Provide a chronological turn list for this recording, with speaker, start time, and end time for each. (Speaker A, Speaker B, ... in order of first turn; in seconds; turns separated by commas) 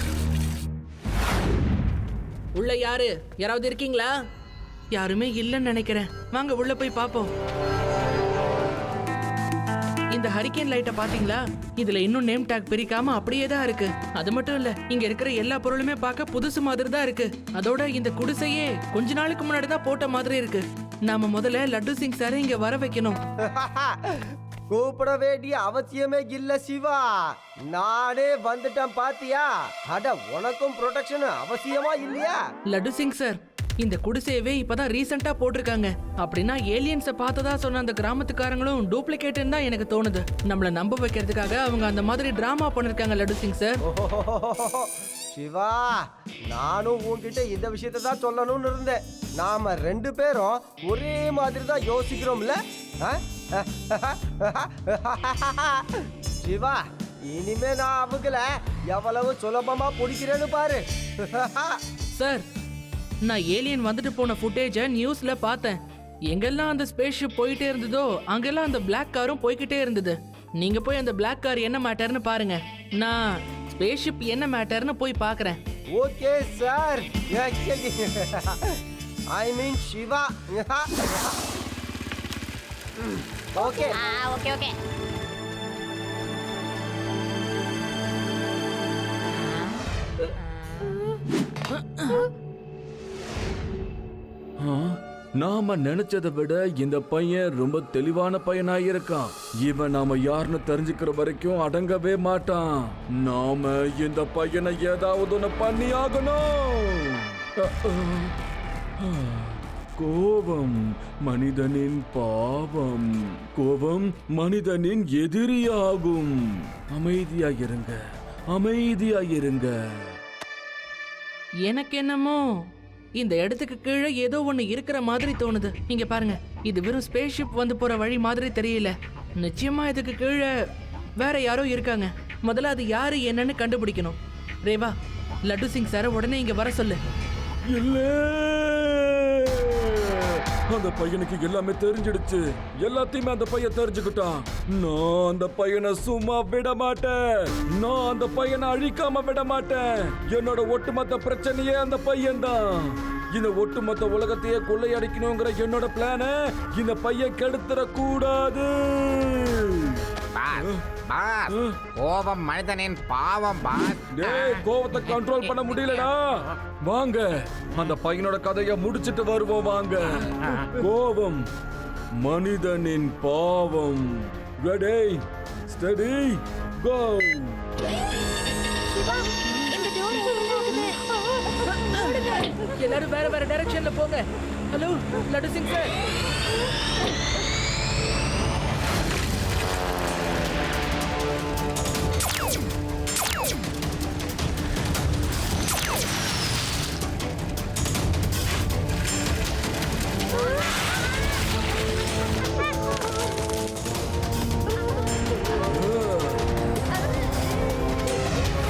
Speaker A: 2.5-4.1, Speaker A: 4.9-7.3, Speaker A: 10.1-23.2, Speaker B: 23.5-32.4, Speaker A: 32.7-43.8, Speaker B: 43.8-61.8, Speaker A: 62.1-62.4, Speaker A: 63.2-65.8, Speaker A: 66.3-75.6, Speaker B: 75.9-78.8, Speaker B: 79.3-81.4, Speaker B: 83.5-84.0, Speaker C: 83.6-84.7, Speaker D: 94.6-108.3, Speaker D: 109.0-116.3, Speaker D: 116.9-118.0, Speaker D: 118.5-119.7, Speaker A: 121.6-122.4, Speaker A: 123.2-130.5, Speaker A: 131.2-134.9, Speaker A: 135.4-137.0, Speaker D: 137.7-160.0, Speaker E: 160.3-164.4, Speaker D: 164.2-166.2, Speaker D: 166.8-171.4, Speaker D: 172.2-174.1, Speaker D: 174.6-177.6, Speaker C: 179.7-180.9, Speaker A: 181.7-185.9, Speaker D: 205.8-206.2